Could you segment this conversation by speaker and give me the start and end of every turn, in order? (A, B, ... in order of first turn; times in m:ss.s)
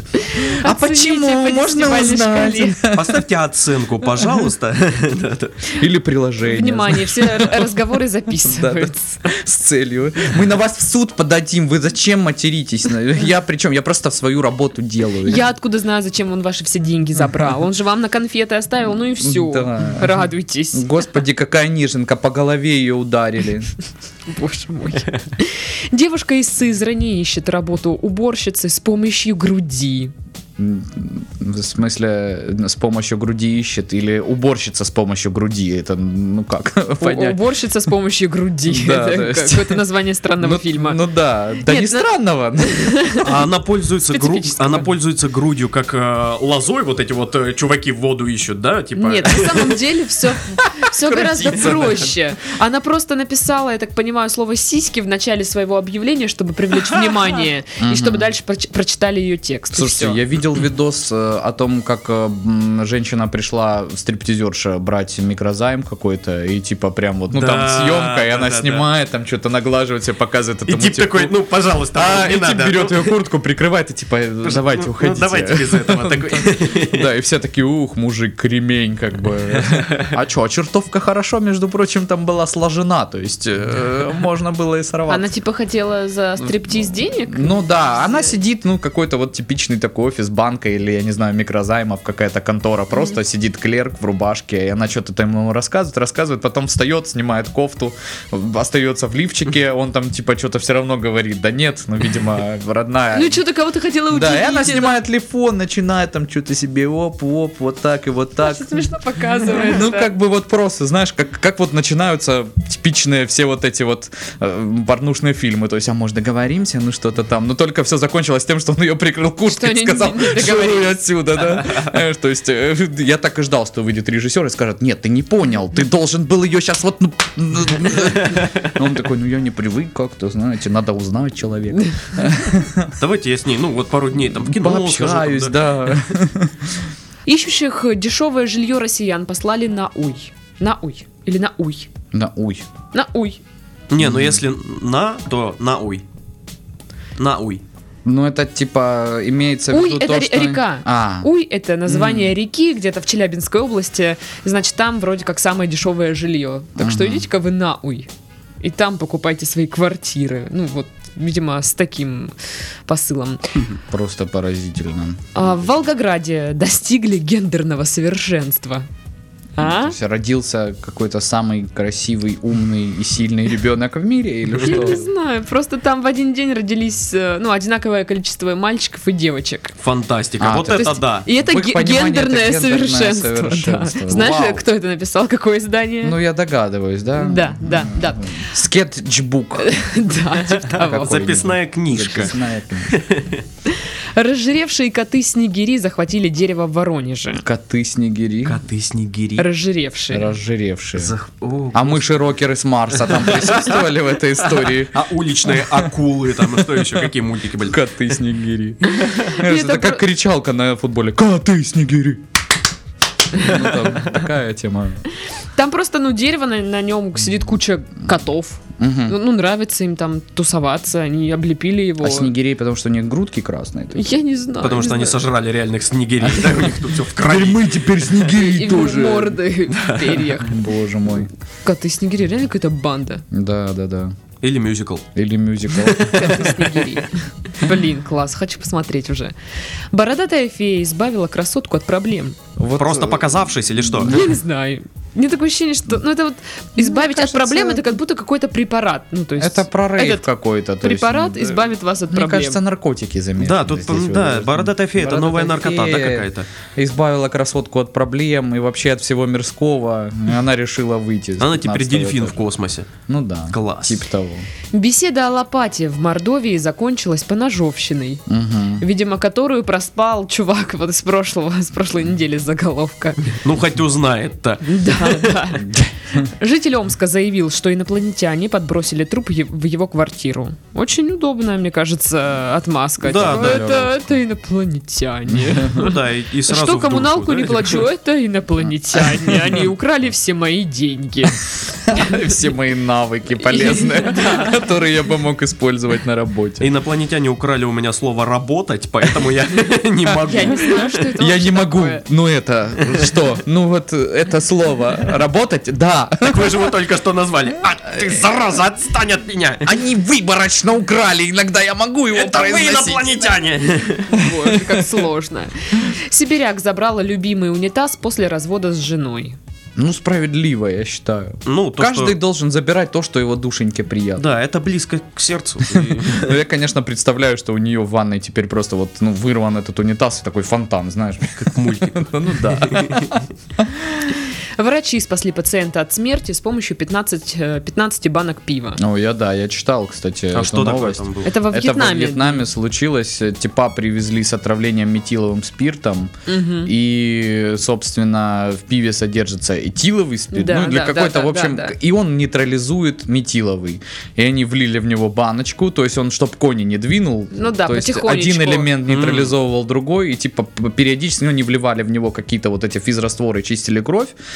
0:00.2-0:02.8 A
0:00.6-0:03.2 B
0:02.9-0:05.6 C
0:04.2-0:04.4 B
0:05.7-0:07.7 B
0:06.4-0:09.2 A
0:08.4-0:15.4 B
0:15.2-0:20.9 A
0:19.2-0:23.7 B
0:24.3-0:30.1 A
0:30.6-0:37.4 B
0:37.0-0:41.0 A
0:38.7-0:39.8 B
0:40.4-0:43.2 B
0:41.6-0:42.0 A
0:42.6-0:43.3 A
0:43.2-0:49.8 C
0:44.1-0:44.8 A
0:49.0-1:00.2 A
0:51.0-0:52.0 C
0:51.1-0:52.0 B
0:57.8-0:58.3 B
0:59.7-1:11.3 B
1:07.3-1:08.8 C
1:10.7-1:13.2 C
1:11.9-1:25.3 B
1:14.4-1:17.1 C
1:25.1-1:28.3 A
1:26.4-1:43.4 B
1:43.1-1:45.0 A
1:44.1-1:48.8 B
1:48.4-1:50.1 A
1:49.5-2:12.9 B
1:59.4-2:01.0 A
2:13.0-2:16.1 C
2:14.3-2:16.8 B
2:17.2-2:21.9 A
2:22.1-2:22.6 B
2:22.9-2:23.4 A
2:23.9-2:26.0 C
2:24.0-2:24.4 B
2:27.2-2:27.6 C
2:28.0-2:31.3 B
2:29.7-2:38.1 A
2:31.9-2:32.3 B
2:36.8-2:37.2 B
2:38.6-2:42.3 A
2:42.9-2:43.5 A
2:43.7-2:45.5 B
2:45.3-2:48.9 A
2:49.6-2:50.0 A
2:49.6-2:55.1 B
2:54.6-2:59.7 A
2:59.8-3:01.2 C
3:00.4-3:04.6 B
3:00.8-3:06.2 A
3:06.0-3:09.7 B
3:07.2-3:08.4 A
3:09.6-3:11.1 A
3:10.6-3:13.4 C
3:10.7-3:13.0 B
3:13.6-3:17.4 A
3:17.4-3:18.6 B
3:18.4-3:19.5 C
3:19.4-3:20.3 A
3:20.1-3:21.1 B
3:21.0-3:22.2 C
3:21.7-3:25.0 B
3:23.0-3:23.8 C
3:24.5-3:27.9 C
3:25.5-3:25.9 B
3:26.5-3:27.0 B
3:27.6-3:32.2 B
3:28.8-3:30.0 A
3:33.3-3:35.0 B
3:35.5-3:42.3 A
3:38.8-3:39.1 B
3:42.0-3:44.1 B
3:43.9-3:45.2 A
3:44.6-3:47.8 C
3:46.2-3:46.6 B
3:47.2-3:49.4 B
3:48.2-3:50.6 A
3:49.7-3:50.2 C
3:50.4-3:51.3 B
3:51.6-3:53.2 A
3:53.3-3:54.1 B
3:54.4-3:55.1 C
3:55.1-3:56.5 B
3:55.7-3:57.0 C
3:56.0-3:59.3 A
3:59.9-4:02.4 A
4:02.6-4:04.3 B
4:02.8-4:04.3 C
4:04.0-4:10.3 A
4:06.8-4:08.0 B
4:09.4-4:22.4 B
4:10.8-4:12.6 A
4:13.4-4:16.5 C
4:21.4-4:22.9 C
4:23.1-4:24.4 B
4:23.5-4:24.0 C
4:24.7-4:28.2 A
4:28.3-4:28.8 B
4:28.8-4:33.4 A
4:33.4-4:35.4 C
4:34.6-4:52.4 A
4:35.6-4:36.2 B
4:43.0-4:43.7 C
4:43.2-4:44.0 B
4:45.3-4:45.8 B
4:45.7-4:47.9 C
4:48.9-4:49.6 B
4:51.8-4:56.7 B
4:53.4-4:54.6 A
4:56.6-5:00.8 C
5:00.2-5:02.0 A
5:01.2-5:06.6 B
5:02.8-5:03.1 C
5:06.2-5:09.8 C
5:09.6-5:13.4 B
5:12.1-5:14.2 C
5:14.1-5:19.4 A
5:14.2-5:15.0 B
5:19.8-5:24.2 B
5:21.4-5:22.2 C
5:24.2-5:26.4 C
5:25.7-5:34.1 B
5:31.4-5:33.2 C
5:34.6-5:38.8 A
5:38.8-5:46.1 B
5:40.3-5:41.3 C
5:41.2-5:42.4 A
5:46.3-5:46.7 A
5:46.6-6:04.1 B
5:50.3-5:51.7 A
5:57.3-5:58.7 A
5:58.9-5:59.3 C